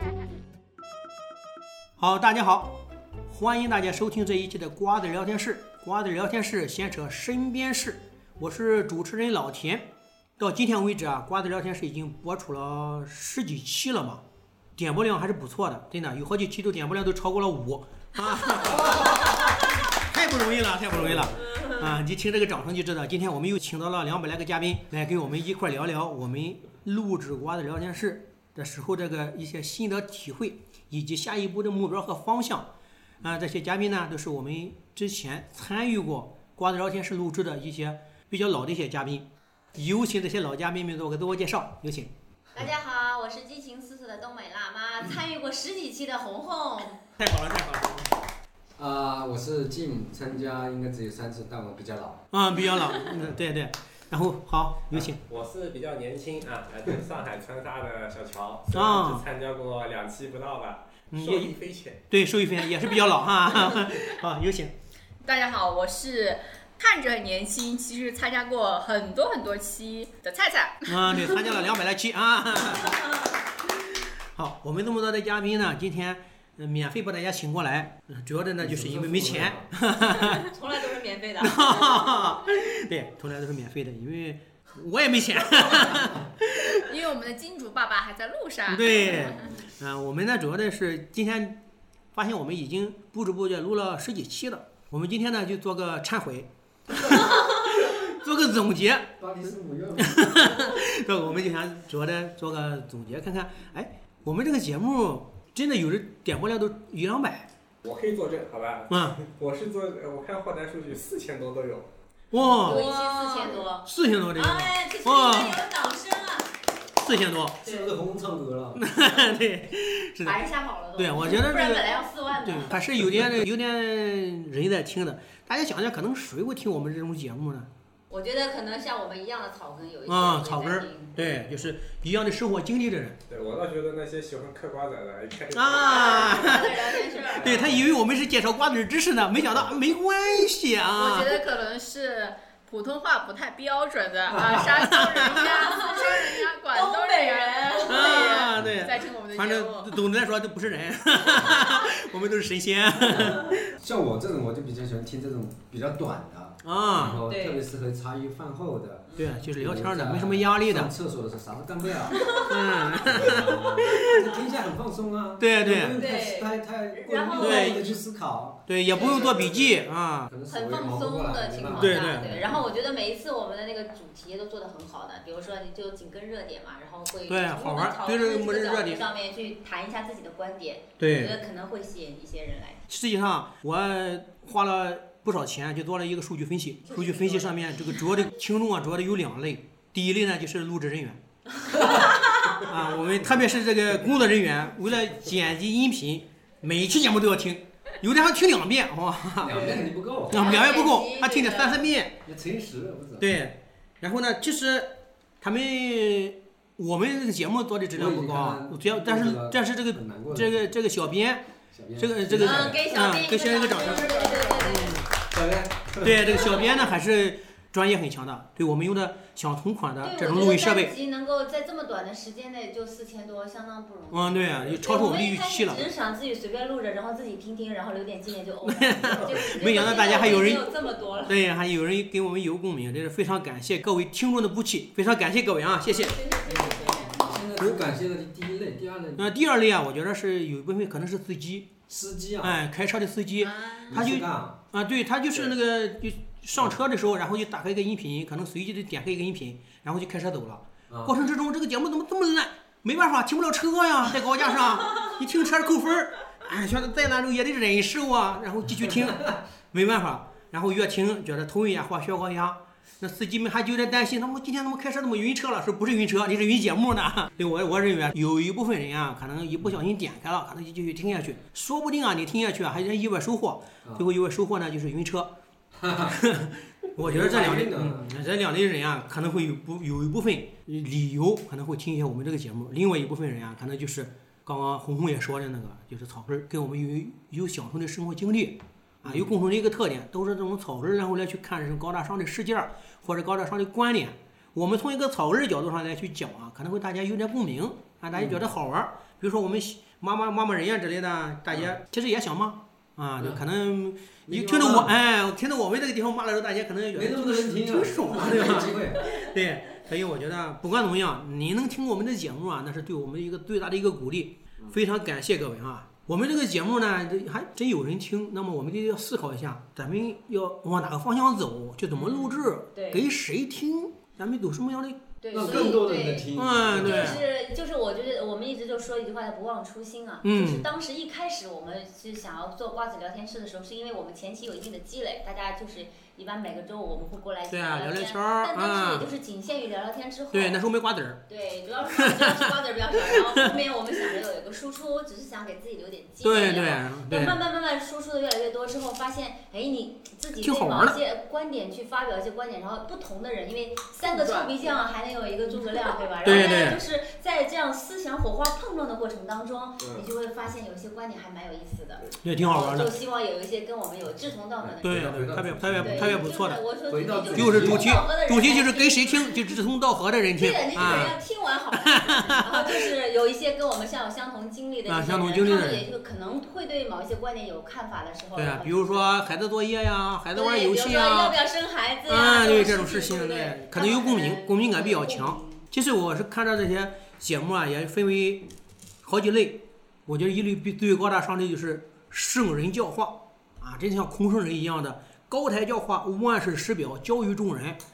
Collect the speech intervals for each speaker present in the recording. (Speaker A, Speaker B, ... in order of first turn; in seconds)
Speaker A: 2.0-2.7, 3.3-9.9, 10.4-14.2, 14.8-32.7, 33.2-42.1, 47.2-48.1, 52.3-55.2, 58.7-59.2, 61.1-61.5, 62.1-64.7, 70.9-73.0, 73.6-80.4, 81.4-86.8, 88.7-91.6, 92.1-99.1, 100.0-107.5, 108.9-109.3, 112.3-112.8, 113.8-115.6, 117.0-117.7, 118.7-120.4, 121.0-127.7, 130.1-133.2, 135.5-141.4, 144.6-145.5, 147.9-153.7, 156.6-157.2, 159.2-160.9, 162.4-164.1, 165.4-166.0, 167.4-167.8, 168.7-170.3, 171.7-172.3, 177.3-179.0, 181.0-181.4, 182.9-191.2, 192.5-202.2, 203.2-211.4, 211.9-215.1, 216.0-220.9, 224.1-225.8, 228.6-230.7, 231.2-236.2, 237.6-237.9, 239.2-241.7, 242.4-275.3, 276.1-325.8, 326.3-327.2, 330.2-330.7, 337.5-339.1, 340.3-341.2, 341.9-342.4, 343.1-343.6, 346.2-347.4, 350.4-351.0, 356.2-356.8, 362.2-362.9, 364.8-366.6, 367.3-371.2, 371.8-372.9, 374.9-375.9, 378.3-381.4, 382.1-388.4, 389.0-397.8
Speaker B: 18.6-19.4, 20.9-21.6, 48.8-52.2, 78.6-79.7, 99.2-100.3, 117.6-118.8, 144.3-144.7, 153.2-172.7, 199.4-200.5, 202.2-203.3, 207.9-210.7, 211.7-212.8, 215.2-216.4, 236.5-239.3, 241.9-242.6, 243.9-244.6, 250.9-251.1, 275.8-276.1, 277.0-278.1, 289.0-289.3, 298.1-298.4, 304.3-304.9, 306.9-309.1, 325.3-327.2, 364.6-366.3, 366.9-367.8
Speaker C: 42.5-47.0, 80.0-82.2, 112.3-116.5, 120.2-122.8, 128.1-131.2, 135.7-137.7, 145.3-148.5, 157.3-157.7, 159.1-159.4, 162.1-162.9, 165.9-167.8, 168.9-169.3, 170.5-182.8, 186.8-187.9, 191.7-192.5, 199.5-201.5, 212.4-215.1, 216.3-216.9, 220.0-231.4, 235.8-237.4, 321.9-323.0, 325.2-340.6, 341.3-364.9, 365.8-369.4, 370.3-379.1, 380.3-385.6
Speaker D: 54.9-62.0, 107.8-111.9, 133.3-136.6, 137.3-137.9
Speaker E: 65.2-71.4, 86.7-89.5, 112.6-113.6, 140.9-150.0, 213.8-214.9, 243.4-243.9, 354.0-354.8